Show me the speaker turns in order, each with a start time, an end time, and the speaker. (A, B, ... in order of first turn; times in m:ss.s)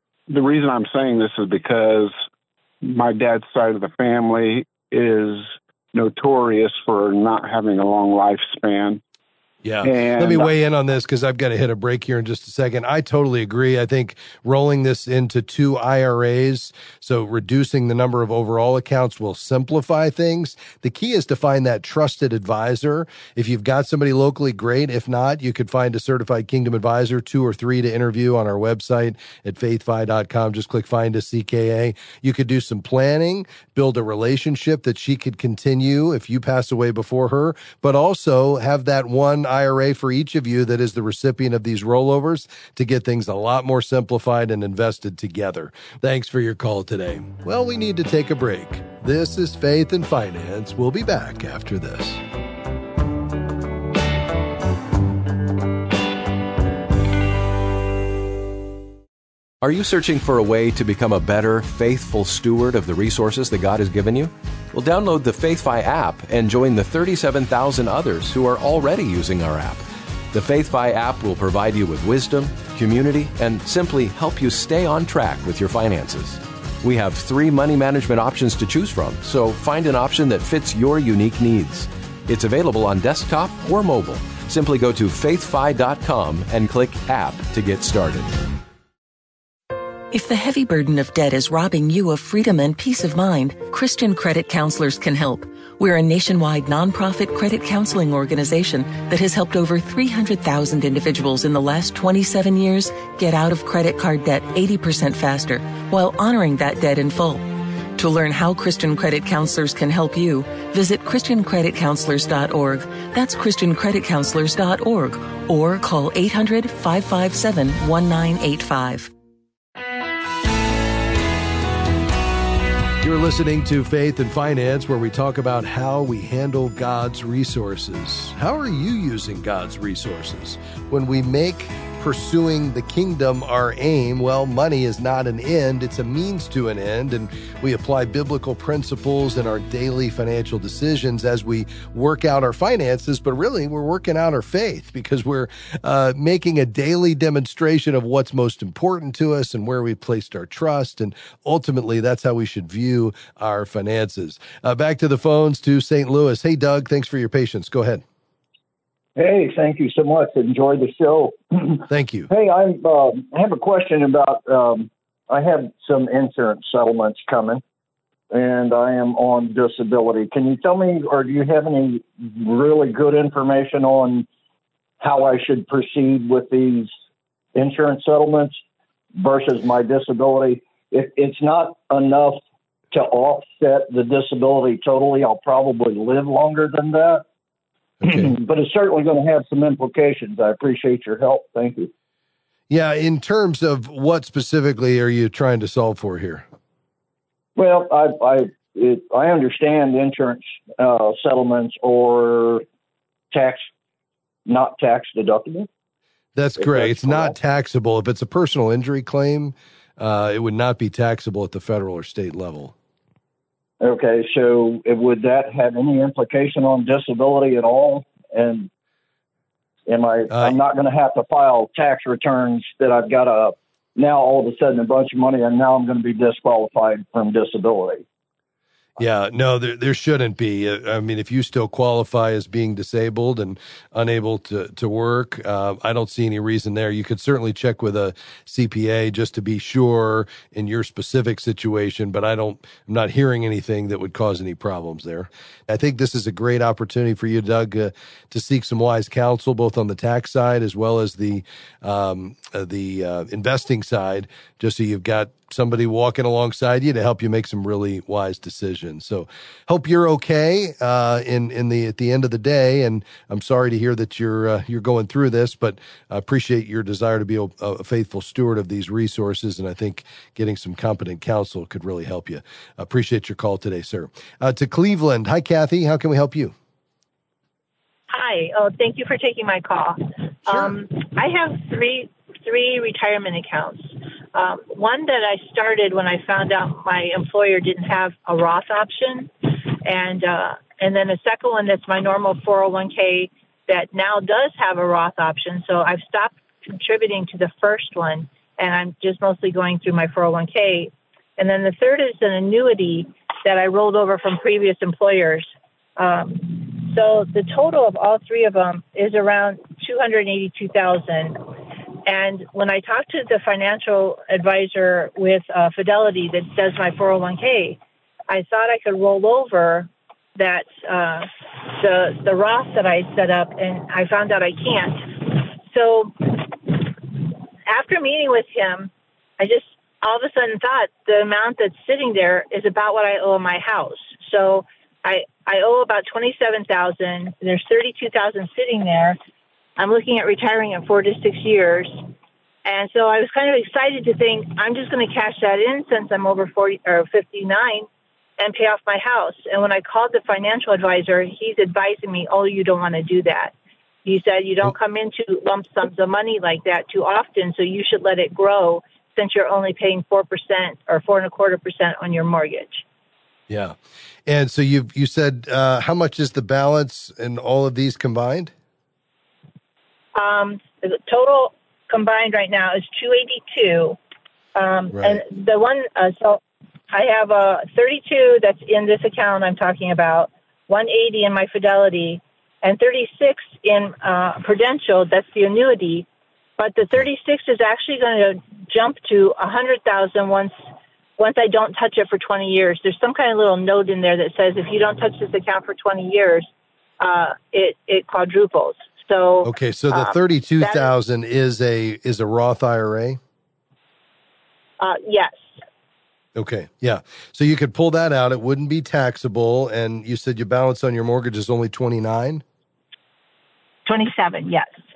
0:00.3-0:02.1 A
0:02.8-0:09.0 A
0:09.6-0:52.2 B
0:09.8-0:10.5 A
0:59.6-1:28.3 C
1:30.1-1:59.1 D
2:03.0-2:38.0 B
2:39.2-2:47.6 E
2:41.9-2:42.3 B
2:48.3-2:54.2 E
2:55.0-2:56.9 E
2:57.5-2:58.6 E
2:59.1-3:07.2 E
3:08.0-3:08.3 B
3:08.0-3:11.9 E
3:12.7-3:16.4 B
3:17.6-3:22.6 E
3:23.3-3:23.7 E
3:24.4-3:25.7 E
3:26.3-3:32.7 B
3:26.6-3:27.3 E
3:33.8-3:38.7 E
3:39.9-3:48.0 E
3:49.0-4:36.5 B
4:38.1-5:39.2 F
4:40.5-4:40.8 B
5:39.8-5:42.1 F
5:42.6-5:47.9 F
5:48.4-5:53.5 F
5:54.0-6:02.8 F
6:03.5-6:08.5 B
6:10.1-6:14.0 F
6:14.5-6:26.1 F
6:14.9-6:15.2 B
6:26.6-6:36.5 F
6:37.0-6:40.9 F
6:39.4-6:43.2 B
6:44.8-6:45.6 F
6:46.4-6:52.4 B
6:53.8-6:54.8 F